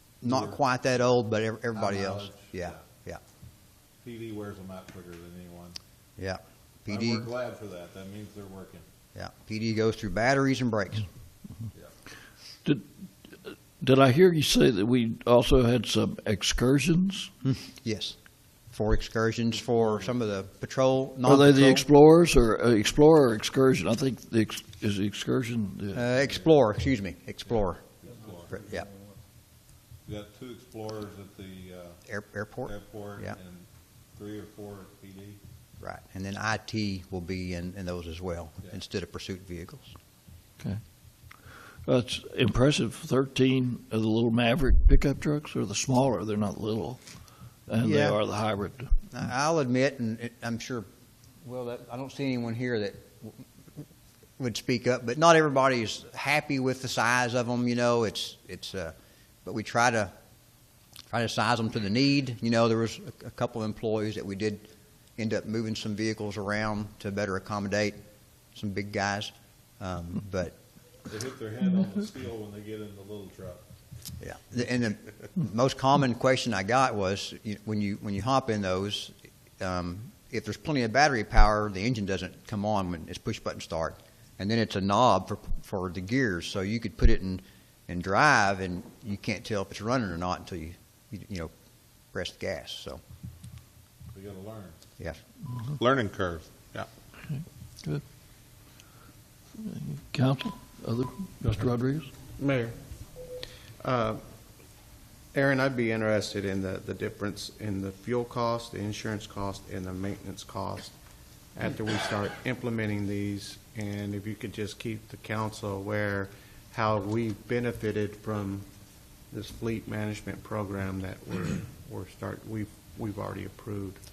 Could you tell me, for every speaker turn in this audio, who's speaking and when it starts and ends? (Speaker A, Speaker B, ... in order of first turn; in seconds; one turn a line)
Speaker A: 0.2-3.2
Speaker B: 0.3-0.6
Speaker B: 1.8-2.8
Speaker B: 4.0-5.8
Speaker A: 6.2-7.3
Speaker B: 6.9-8.8
Speaker A: 9.1-11.1
Speaker C: 13.4-17.3
Speaker A: 17.4-18.1
Speaker A: 18.7-21.8
Speaker C: 21.2-26.0
Speaker A: 25.9-27.8
Speaker B: 28.0-28.6
Speaker A: 28.5-28.9
Speaker B: 30.0-32.0
Speaker A: 32.0-33.4
Speaker B: 32.6-35.4
Speaker A: 35.8-39.9
Speaker C: 41.8-47.0
Speaker C: 47.7-48.9
Speaker A: 47.8-48.2
Speaker A: 49.1-50.9
Speaker A: 51.4-53.4
Speaker A: 54.4-58.9
Speaker A: 59.4-60.1
Speaker A: 61.1-68.0
Speaker A: 68.5-70.5
Speaker B: 71.1-73.6
Speaker A: 74.2-91.5
Speaker A: 92.1-93.0
Speaker B: 94.1-94.8
Speaker B: 95.7-96.9
Speaker C: 97.3-98.0
Speaker C: 99.6-102.1
Speaker D: 102.4-102.8
Speaker D: 103.8-104.2
Speaker D: 105.3-110.9
Speaker D: 111.5-118.7
Speaker D: 119.3-124.0